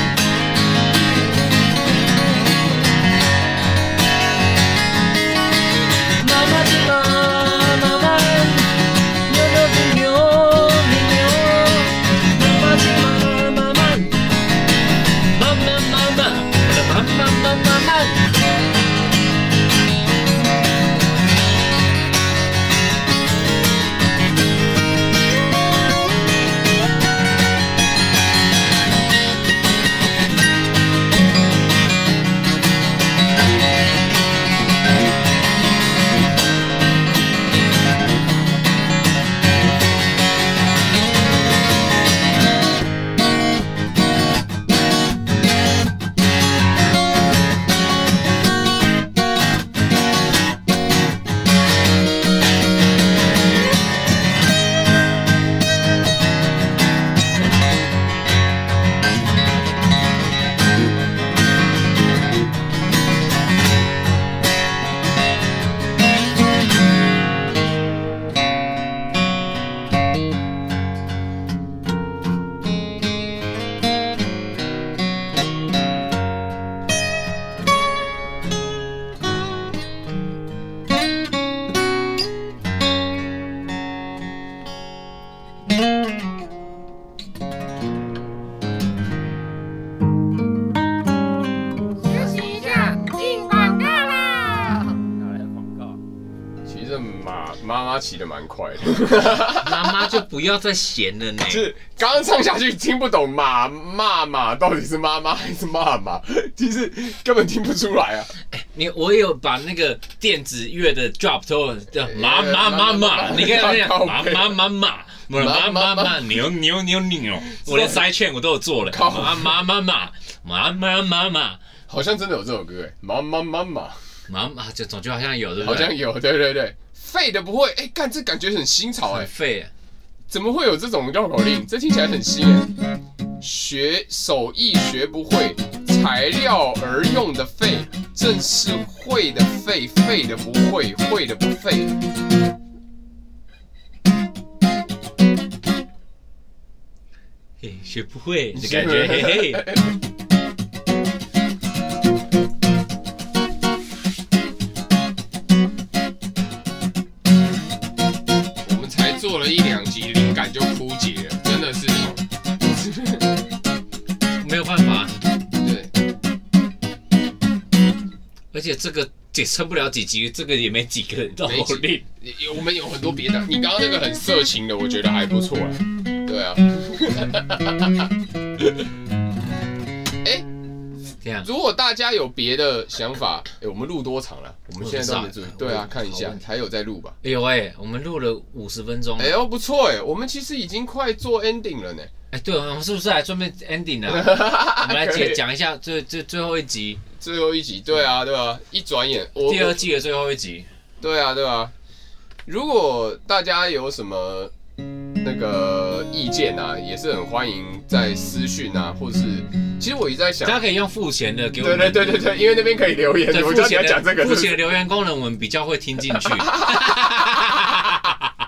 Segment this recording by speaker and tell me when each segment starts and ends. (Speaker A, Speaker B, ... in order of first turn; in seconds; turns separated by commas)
Speaker A: 6.2-14.2, Speaker A: 15.3-18.3, Speaker B: 92.0-95.0, Speaker C: 96.7-100.2, Speaker A: 99.5-101.7, Speaker C: 101.4-108.3, Speaker A: 108.5-121.6, Speaker C: 112.0-114.6, Speaker C: 115.3-116.4, Speaker C: 117.5-118.0, Speaker C: 118.9-119.6, Speaker C: 121.9-124.0, Speaker A: 124.3-125.9, Speaker C: 125.6-129.3, Speaker A: 129.1-129.7, Speaker C: 130.3-132.7, Speaker C: 133.4-142.0, Speaker A: 147.6-149.7, Speaker C: 148.5-149.9, Speaker C: 158.6-163.3, Speaker A: 164.4-165.2, Speaker C: 165.6-165.9, Speaker A: 168.5-172.0, Speaker C: 171.4-178.8, Speaker C: 181.4-187.2, Speaker A: 184.8-186.4, Speaker A: 187.2-189.3, Speaker C: 189.2-192.1, Speaker A: 192.3-197.0, Speaker C: 194.1-195.4, Speaker C: 197.2-199.8, Speaker A: 199.4-200.7, Speaker C: 201.0-201.7, Speaker C: 202.4-204.5, Speaker C: 205.2-210.6, Speaker A: 210.4-212.3, Speaker C: 211.6-214.6, Speaker A: 213.3-218.2, Speaker C: 216.1-217.1